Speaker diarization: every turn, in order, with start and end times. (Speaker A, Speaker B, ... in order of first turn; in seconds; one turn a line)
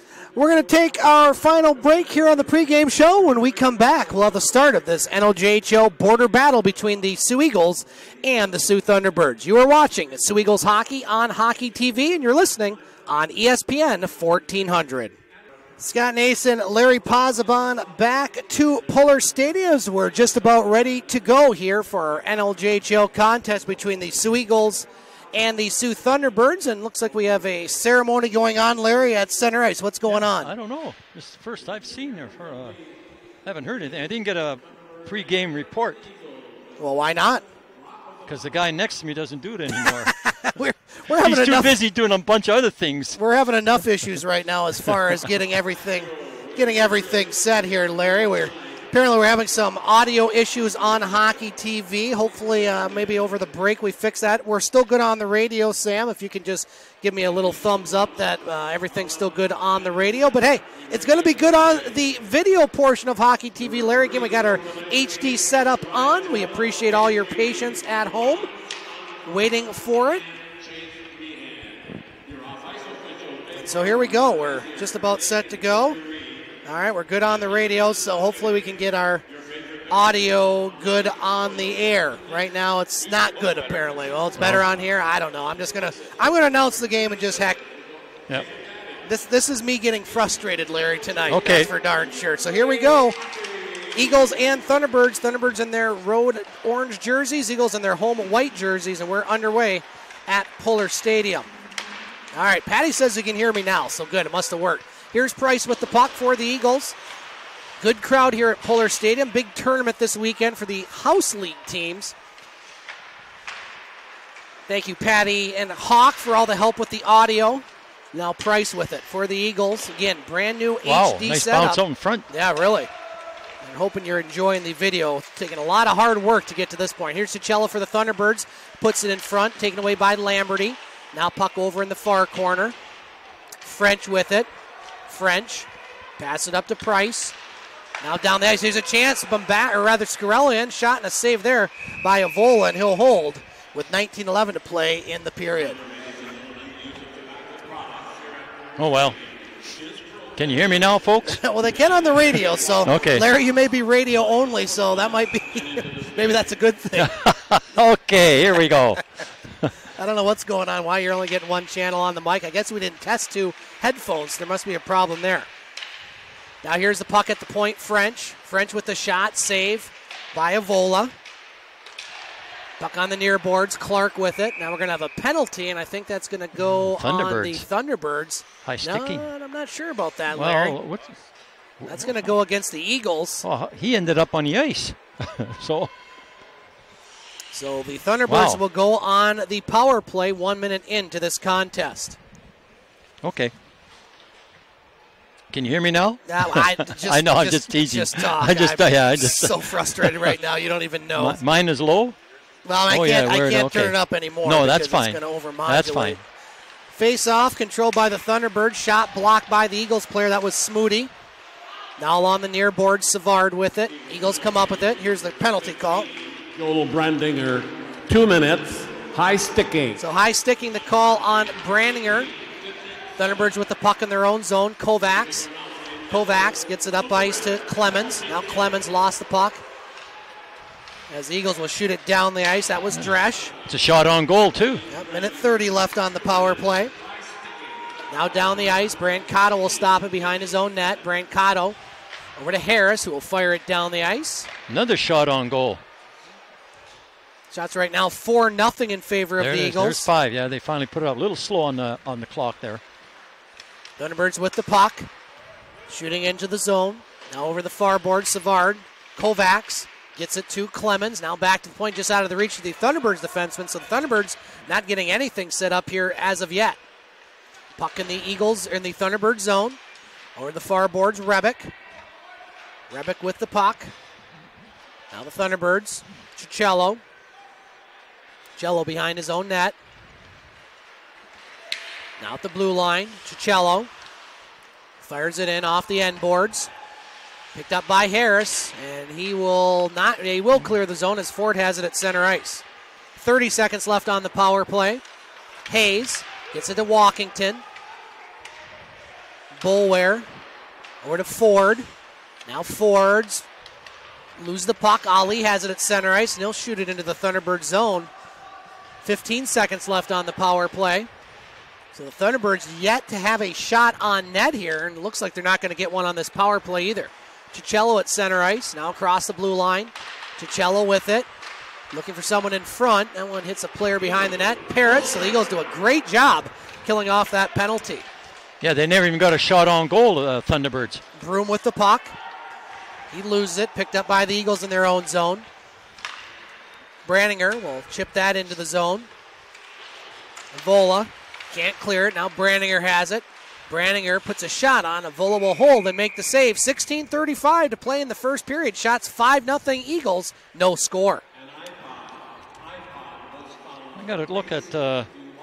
Speaker A: 0.3-15.2
Speaker A: 15.8-30.5
Speaker B: 30.1-32.8
Speaker B: 33.4-36.1
Speaker A: 36.8-37.4
Speaker B: 38.2-40.2
Speaker A: 39.7-41.7
Speaker B: 41.1-43.2
Speaker A: 43.1-68.5
Speaker A: 69.2-70.2
Speaker C: 71.0-71.8
Speaker C: 72.3-73.5
Speaker A: 73.5-76.0
Speaker A: 76.6-79.2
Speaker A: 79.9-87.6
Speaker A: 89.0-93.2
Speaker B: 91.3-91.7
Speaker A: 93.9-101.5
Speaker A: 102.3-106.9
Speaker A: 107.8-112.1
Speaker A: 114.7-122.9
Speaker B: 120.8-122.3
Speaker A: 123.6-132.8
Speaker A: 133.6-134.5
Speaker A: 135.1-137.3
Speaker A: 138.0-145.8
Speaker B: 148.8-149.2
Speaker B: 150.3-151.4
Speaker A: 151.3-157.1
Speaker B: 152.8-153.2
Speaker B: 157.0-159.0
Speaker A: 159.9-165.5
Speaker A: 166.6-171.1
Speaker A: 172.8-180.8
Speaker B: 176.7-177.6
Speaker B: 178.6-179.3
Speaker B: 180.3-181.2
Speaker B: 181.8-182.1
Speaker A: 181.8-183.4
Speaker B: 183.4-185.9
Speaker A: 187.5-192.2
Speaker B: 188.3-188.6
Speaker B: 193.2-193.5
Speaker B: 195.5-200.3
Speaker A: 196.3-201.4
Speaker B: 201.2-202.2
Speaker A: 202.6-206.2
Speaker B: 202.9-206.2
Speaker A: 206.9-211.1
Speaker A: 212.0-216.1
Speaker C: 216.5-220.0
Speaker A: 220.0-222.3
Speaker A: 223.2-225.5
Speaker A: 226.1-229.6
Speaker A: 231.1-233.5
Speaker B: 233.7-234.8
Speaker A: 234.9-236.9
Speaker A: 238.1-241.8
Speaker A: 242.4-244.5
Speaker B: 244.7-245.8
Speaker A: 247.5-250.1
Speaker B: 249.4-252.8
Speaker A: 254.0-255.1
Speaker A: 255.9-266.8
Speaker A: 267.8-269.8
Speaker A: 270.4-271.7
Speaker A: 272.9-273.9
Speaker A: 275.1-277.0
Speaker A: 278.6-279.8
Speaker A: 282.2-283.9
Speaker A: 285.0-286.7
Speaker A: 287.5-292.6
Speaker A: 293.2-295.0
Speaker A: 295.7-297.6
Speaker A: 299.6-300.3
Speaker A: 301.0-301.9
Speaker A: 302.4-303.4
Speaker A: 304.4-308.1
Speaker A: 309.0-311.1
Speaker A: 311.9-321.3
Speaker A: 321.9-328.1
Speaker B: 328.6-331.0
Speaker A: 331.1-332.1
Speaker A: 333.1-335.5
Speaker A: 337.0-339.1
Speaker A: 340.5-351.2
Speaker C: 352.7-353.9
Speaker B: 353.9-355.1